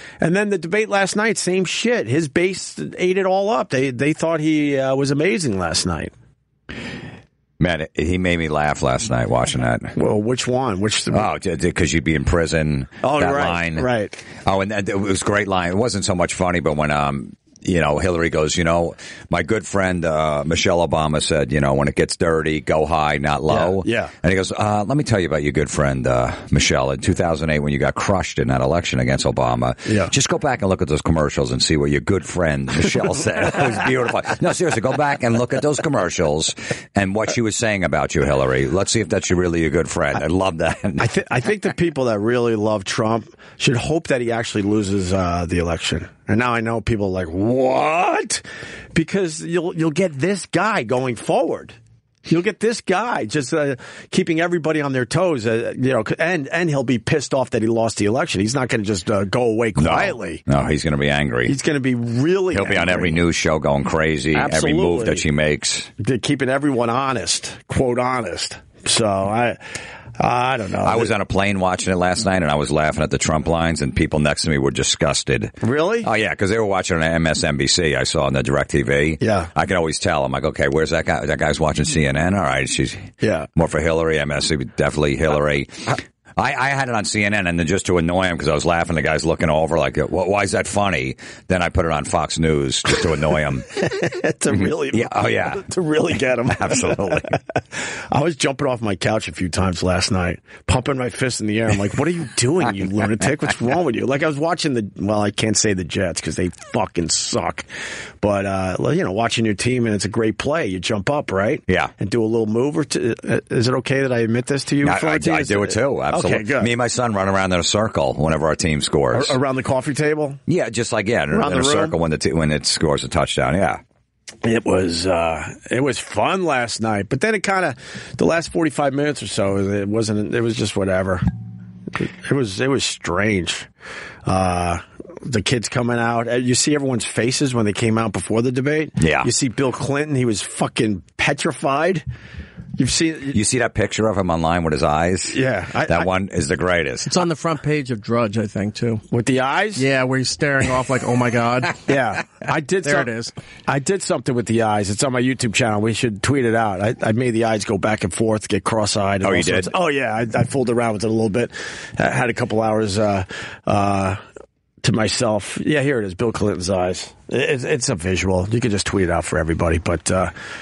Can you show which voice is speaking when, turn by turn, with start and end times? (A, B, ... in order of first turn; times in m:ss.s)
0:00.2-0:06.1 A
0:07.6-0:09.9 B
0:09.9-0:11.3 A
0:11.1-0:13.9 B
0:13.0-0:14.2 A
0:14.4-0:41.1 B
0:23.5-0:24.1 A
0:29.9-0:30.1 A
0:41.0-0:48.4 A
0:48.9-1:00.4 A
0:59.8-1:01.5 B
1:01.4-1:03.2 A
1:02.5-1:05.9 B
1:04.3-1:05.2 A
1:06.0-1:09.6 A
1:10.2-1:11.1 A
1:10.8-1:33.8 B
1:15.6-1:16.1 A
1:19.2-1:19.5 A
1:23.2-1:23.5 A
1:33.8-1:37.4 A
1:34.5-1:35.6 B
1:36.5-1:37.4 B
1:38.1-1:47.7 A
1:48.2-1:56.7 A
1:54.8-1:59.4 B
1:59.1-2:00.4 A
2:00.5-2:03.8 B
2:01.3-2:01.9 A
2:04.4-2:11.2 A
2:11.9-2:13.7 A
2:14.2-2:22.0 A
2:19.0-2:19.3 B
2:22.8-2:23.4 A
2:23.3-2:27.2 B
2:25.3-2:26.1 A
2:27.0-2:29.0 C
2:29.1-2:29.9 A
2:29.8-2:31.8 C
2:31.9-2:33.1 A
2:32.8-2:33.3 C
2:33.7-2:44.2 A
2:39.2-2:39.7 B
2:44.8-2:50.3 A